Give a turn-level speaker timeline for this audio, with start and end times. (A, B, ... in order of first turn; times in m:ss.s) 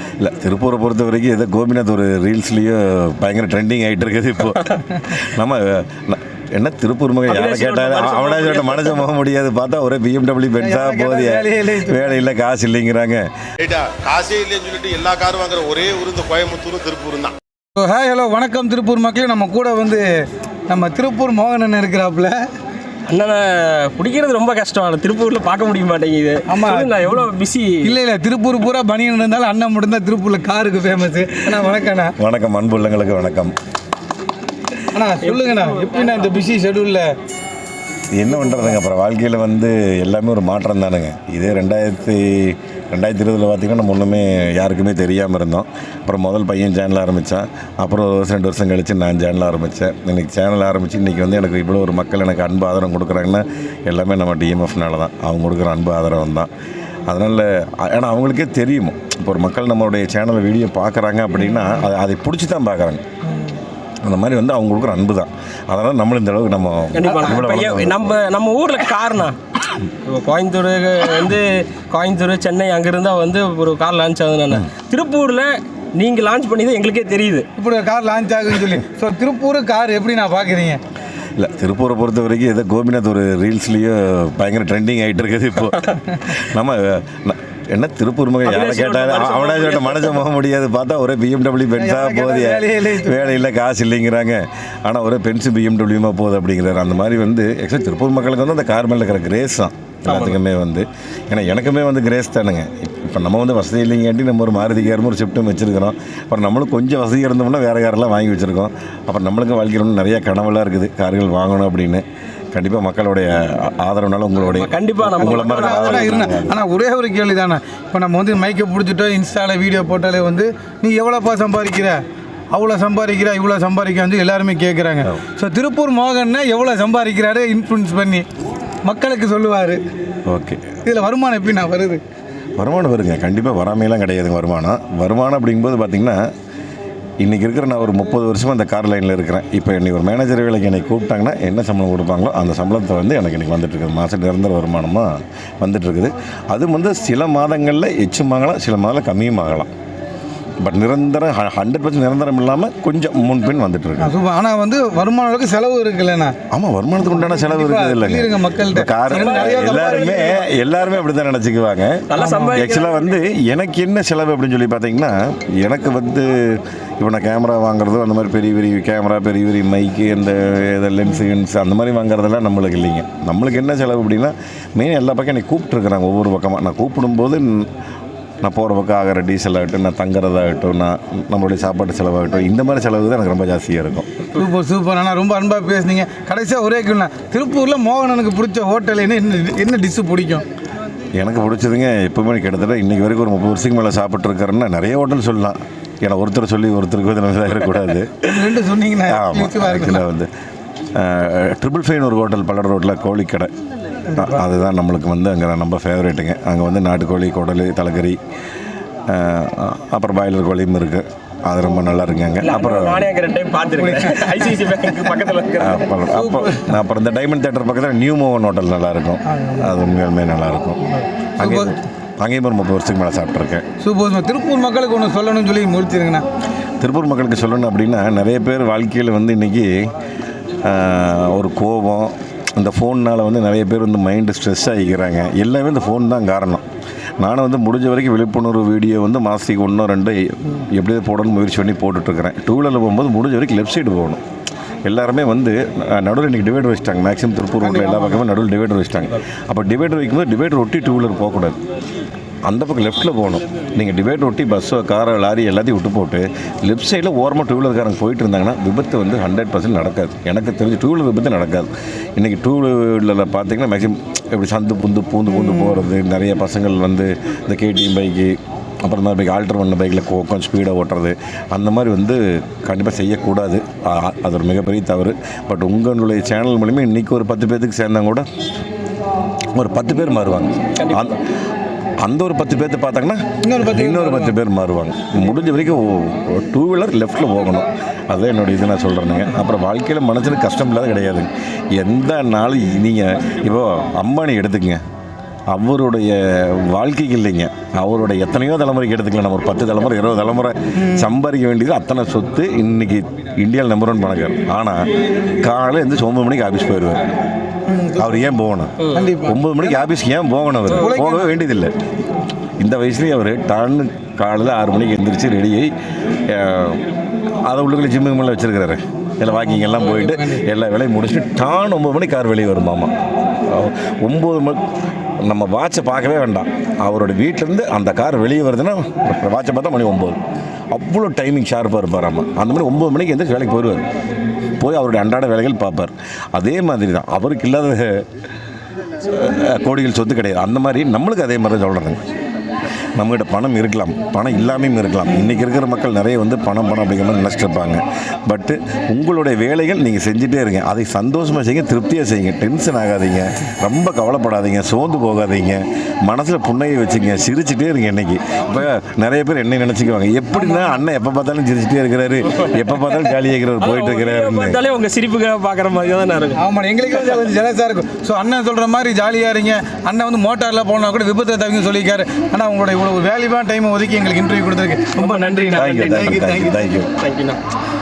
0:00.2-0:13.3 A
0:07.3-0:09.0 B
0:10.6-0:12.2 C
0:13.6-0:17.3 D
0:17.8-0:22.4 C
0:23.1-0:28.0 B
0:26.5-0:27.2 C
0:27.8-0:32.1 C
0:32.2-0:33.5 A
0:34.9-0:37.1 C
0:35.2-0:35.9 B
0:38.2-0:56.5 A
0:57.1-1:03.0 A
1:04.0-1:08.1 A
1:06.9-1:17.5 B
1:17.6-1:20.8 C
1:21.4-1:56.6 A
1:28.4-1:30.2 B
1:31.8-1:33.3 C
1:40.0-1:40.4 B
1:54.4-1:56.2 B
1:55.2-2:02.0 C
2:02.5-2:08.2 C
2:08.8-2:09.8 C
2:10.3-2:10.7 A
2:10.8-2:12.0 C
2:12.6-2:16.2 A
2:17.2-2:29.7 A
2:30.6-2:34.1 A
2:34.0-2:36.3 C
2:36.5-2:57.7 A
2:37.2-2:40.4 C
2:39.1-2:40.4 B
2:42.1-2:43.2 B
2:42.1-2:42.6 C
2:58.4-3:04.1 A
3:04.3-3:10.4 C
3:11.2-3:20.3 A
3:18.2-3:20.0 C
3:20.9-3:23.5 A
3:24.1-3:24.4 C
3:24.1-3:28.2 A
3:29.1-3:33.1 A
3:32.4-3:35.9 B
3:33.6-3:34.6 C
3:35.6-3:43.6 A
3:36.1-3:36.7 C
3:39.3-3:39.7 C
3:41.4-3:41.7 C
3:43.8-3:46.2 C
3:46.8-3:49.9 A
3:50.6-3:56.6 A
3:57.2-4:04.2 A
4:04.8-4:11.6 A
4:07.6-4:08.2 C
4:12.5-4:38.3 A
4:25.4-4:25.7 C
4:39.5-4:41.2 A
4:40.7-4:41.2 B
4:42.0-4:54.8 A
4:43.4-4:44.4 C
4:55.5-5:04.9 A
5:05.4-5:07.2 A
5:07.7-5:08.4 C
5:08.0-5:11.7 A
5:08.8-5:09.1 B
5:08.9-5:09.8 C
5:10.7-5:11.3 C
5:12.6-5:15.7 A
5:16.3-5:16.9 A
5:17.4-5:24.6 A
5:19.4-5:20.4 C
5:25.2-5:30.2 A
5:30.7-5:33.8 A
5:34.6-5:38.1 A
5:39.0-5:42.0 A
5:43.0-6:04.6 A
6:00.3-6:00.8 C
6:03.6-6:06.4 B
6:06.4-6:16.8 C
6:15.0-6:17.4 B
6:15.5-6:16.9 A